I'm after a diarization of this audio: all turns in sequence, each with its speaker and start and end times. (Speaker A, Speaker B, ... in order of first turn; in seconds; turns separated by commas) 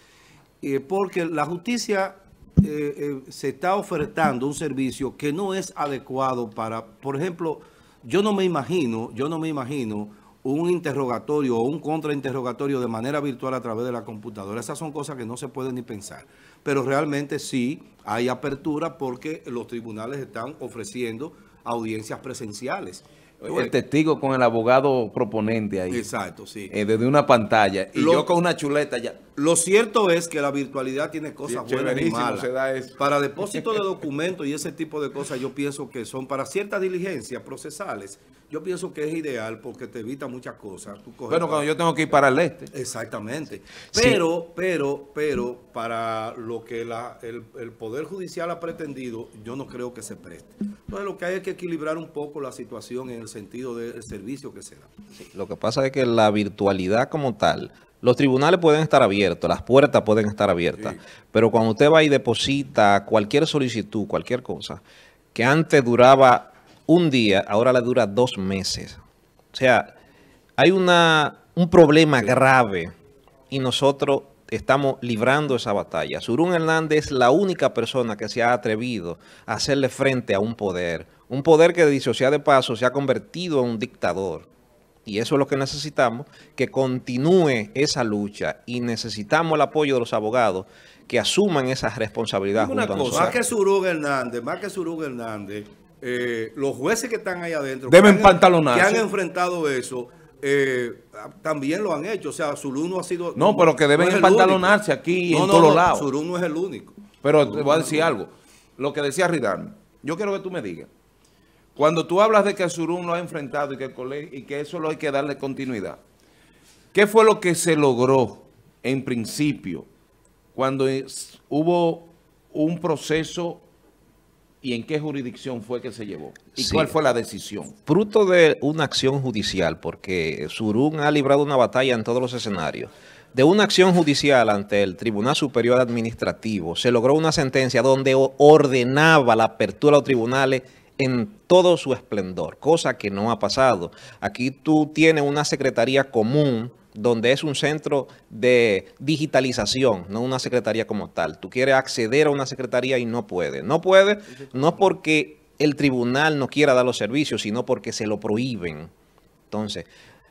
Speaker A: 0.6-23.7, Speaker B: 23.4-26.0, Speaker A: 25.9-26.7, Speaker B: 26.7-29.2, Speaker A: 27.9-28.3, Speaker A: 29.4-41.7, Speaker B: 31.5-33.0, Speaker B: 41.3-42.7, Speaker A: 42.7-54.9, Speaker C: 43.9-44.2, Speaker C: 55.2-64.8, Speaker C: 65.3-69.0, Speaker C: 69.5-69.9, Speaker C: 70.6-72.9, Speaker C: 73.5-84.5, Speaker C: 85.1-93.4, Speaker B: 92.6-93.4, Speaker A: 93.1-108.2, Speaker B: 97.9-99.1, Speaker B: 103.4-106.1, Speaker B: 107.2-110.9, Speaker B: 111.8-116.0, Speaker B: 116.9-119.9, Speaker B: 120.5-123.7, Speaker B: 124.6-127.7, Speaker C: 126.6-127.0, Speaker C: 127.9-158.9, Speaker C: 159.5-159.9